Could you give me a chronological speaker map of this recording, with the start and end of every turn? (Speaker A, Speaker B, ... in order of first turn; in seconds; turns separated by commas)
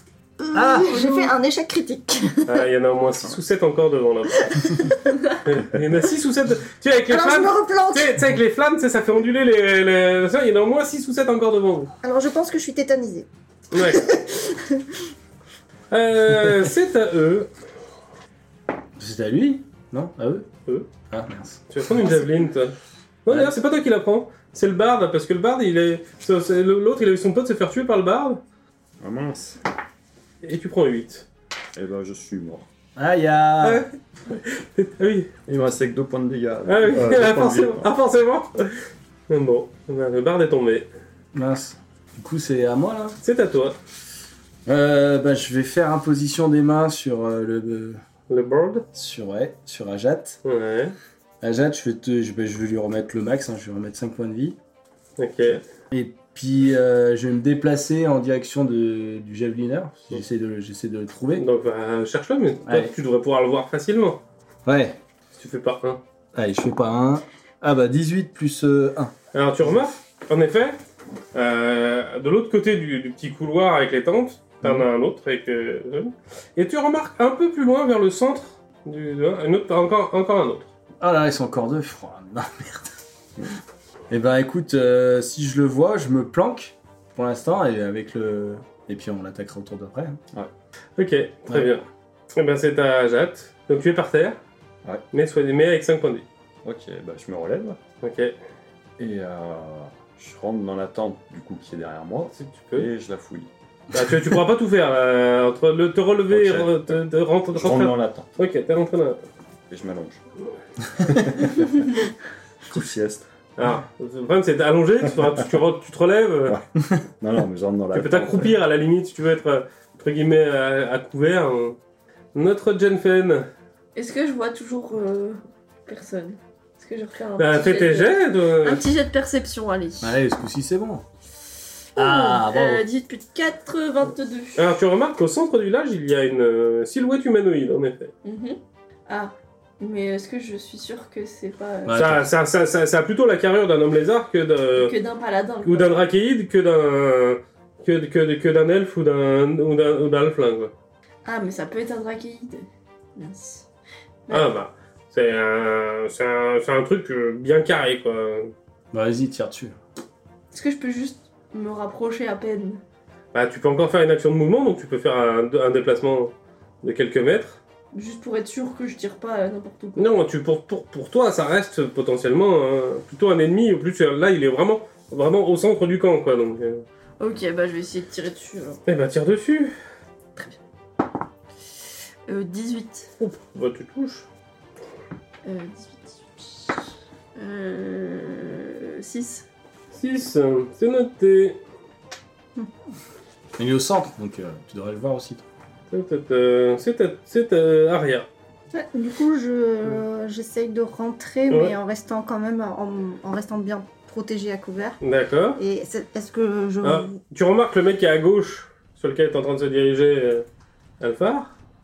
Speaker A: 0.4-2.6, Speaker B: 0.5-1.1, Speaker C: 0.8-1.3, Speaker D: 2.5-4.6, Speaker A: 4.5-5.2, Speaker D: 5.4-11.9, Speaker A: 7.1-8.2, Speaker A: 12.0-14.8, Speaker D: 13.7-14.1, Speaker D: 15.9-17.5, Speaker B: 19.0-20.5, Speaker B: 21.1-21.6, Speaker D: 21.7-28.4, Speaker B: 23.3-23.6, Speaker E: 29.0-29.6, Speaker D: 30.4-31.3, Speaker E: 31.8-32.7, Speaker B: 33.0-33.9, Speaker D: 33.6-35.3, Speaker E: 35.5-37.9, Speaker D: 36.6-40.9, Speaker B: 41.3-43.2, Speaker D: 43.2-43.8, Speaker B: 44.7-48.0, Speaker D: 48.3-48.9, Speaker B: 48.9-50.4, Speaker D: 50.5-51.0, Speaker B: 51.4-54.6, Speaker D: 55.2-55.6, Speaker B: 55.9-61.5, Speaker D: 61.4-64.2, Speaker B: 62.6-62.9, Speaker B: 64.7-65.0, Speaker D: 65.3-66.0, Speaker B: 66.3-69.1, Speaker D: 69.3-70.8, Speaker D: 71.3-80.7, Speaker B: 81.0-82.9, Speaker B: 84.1-90.2, Speaker D: 91.0-91.8, Speaker B: 91.5-91.8, Speaker D: 92.4-94.4, Speaker D: 95.1-96.3, Speaker E: 96.6-97.8, Speaker D: 98.0-98.3, Speaker E: 99.0-103.5, Speaker D: 102.3-102.9, Speaker D: 103.9-109.2, Speaker E: 106.3-107.0, Speaker E: 107.5-108.3, Speaker E: 109.7-110.2, Speaker E: 111.0-111.8, Speaker E: 112.7-113.3, Speaker D: 113.6-116.6, Speaker E: 117.2-118.6, Speaker D: 117.9-121.8, Speaker D: 122.3-123.5, Speaker C: 124.0-130.2, Speaker D: 127.4-128.8, Speaker B: 130.0-131.1, Speaker C: 131.9-134.7, Speaker B: 132.0-132.8, Speaker D: 134.6-138.1, Speaker C: 138.2-142.0, Speaker B: 141.8-142.3, Speaker D: 141.9-144.9, Speaker C: 144.8-146.1, Speaker D: 145.6-150.7, Speaker C: 151.2-153.7, Speaker C: 154.3-154.5, Speaker D: 154.3-158.5, Speaker B: 158.9-159.8, Speaker C: 160.5-162.8, Speaker D: 163.3-167.6, Speaker C: 167.9-170.1, Speaker D: 170.0-176.8, Speaker C: 177.2-178.8, Speaker D: 178.9-179.8, Speaker C: 182.3-183.1, Speaker D: 183.2-184.3, Speaker C: 185.4-186.8, Speaker C: 187.3-189.4, Speaker D: 189.9-191.6, Speaker B: 193.6-195.4, Speaker D: 195.9-198.3, Speaker A: 198.7-205.0, Speaker D: 201.5-201.8, Speaker D: 205.0-205.6, Speaker A: 205.6-207.2, Speaker D: 206.8-210.5, Speaker D: 211.0-211.5